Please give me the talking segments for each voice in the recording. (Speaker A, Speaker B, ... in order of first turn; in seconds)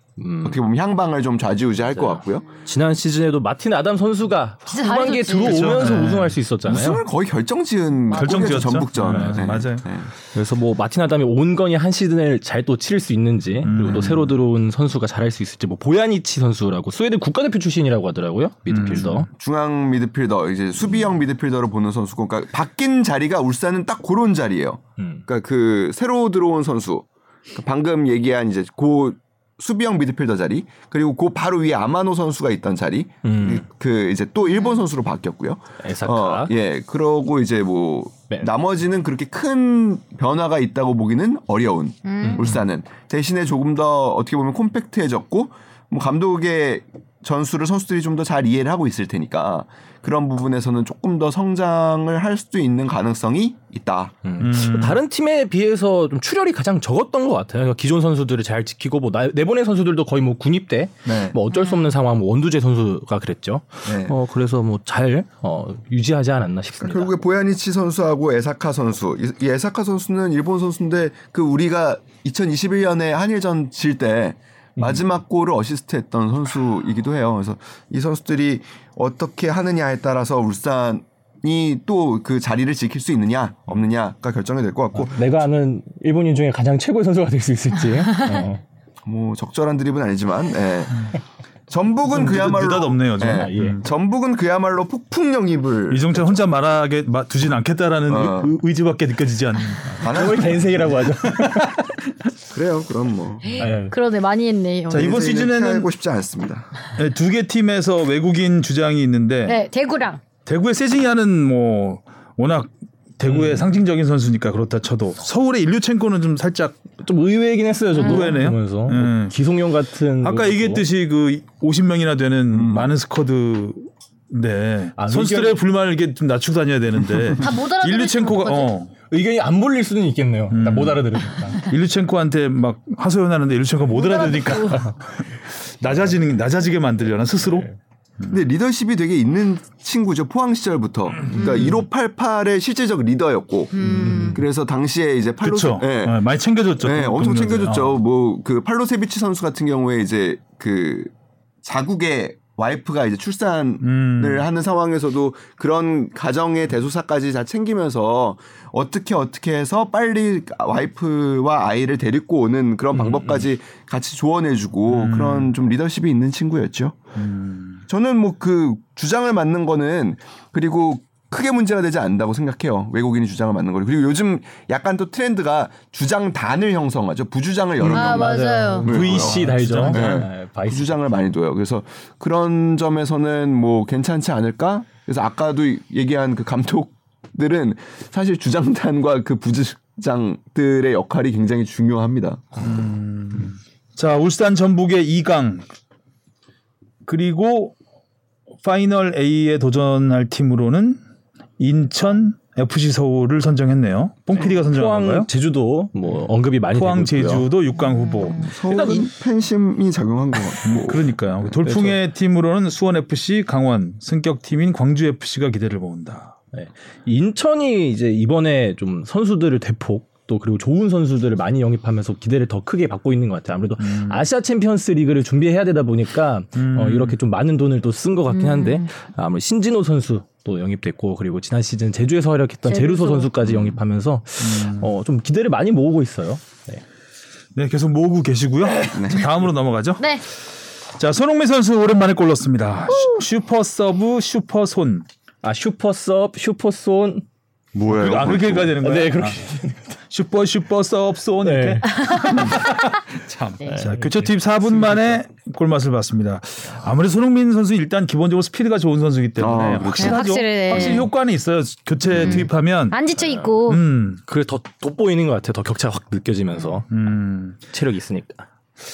Speaker A: 0.2-0.6, 1.9-7.0, 9.0-9.5, 10.3-19.3, 25.0-25.2, 33.2-33.6, 35.8-36.5, 42.2-42.6, 54.2-67.1, 74.8-75.0, 85.0-88.6, 93.2-93.8, 100.0-101.8, 103.6-104.0, 113.3-113.7, 117.0-120.9, 125.0-125.6, 129.1-131.7, 143.9-144.4, 177.8-181.2, 204.3-207.5, 208.6-209.1, 211.6-212.0, 216.5-236.8, 245.4-247.2, 248.8-249.8, 251.4-252.0, 253.6-255.2, 260.7-261.0, 262.1-262.5, 264.3-266.9, 267.7-268.4
Speaker B: 0.4-2.5, 6.7-10.1, 13.8-14.2, 19.0-54.1, 61.0-61.4, 63.8-64.2, 66.8-85.3, 89.0-91.1, 91.7-96.2, 98.1-98.5, 100.0-100.9, 102.5-103.6, 104.9-106.7, 122.5-122.9, 138.3-146.2, 146.8-151.1, 151.6-167.0, 167.9-192.6, 208.4-211.1, 238.9-239.3, 247.7-248.8, 259.4-260.2, 262.1-262.5
Speaker C: 4.7-6.0, 42.0-42.5, 61.5-61.9, 103.5-105.3, 109.5-110.2, 118.0-118.4, 127.4-128.7, 133.9-134.9, 141.3-141.6, 143.7-144.4, 177.9-178.9, 207.8-208.5, 228.3-228.9, 232.7-233.3, 240.0-240.2, 242.9-243.2, 252.1-252.4, 259.9-261.1, 262.9-263.8
Speaker D: 5.4-6.4, 8.1-9.9, 13.6-14.3, 18.7-19.2, 54.4-55.0, 92.2-93.9, 95.9-100.6, 101.3-101.9, 104.9-105.9, 107.0-109.6, 110.5-116.8, 118.0-119.3, 120.2-128.9, 130.5-138.4, 141.4-141.8, 145.4-148.0, 153.8-154.4, 164.9-165.5, 167.1-167.8, 177.8-180.2, 192.6-195.6, 197.1-197.8, 198.6-201.0, 201.6-205.3, 206.7-208.6, 210.6-216.4, 223.8-224.2, 226.6-227.2, 234.4-234.9, 237.6-240.0, 240.9-245.1, 247.9-249.4, 250.1-263.0, 263.7-264.2, 266.9-267.6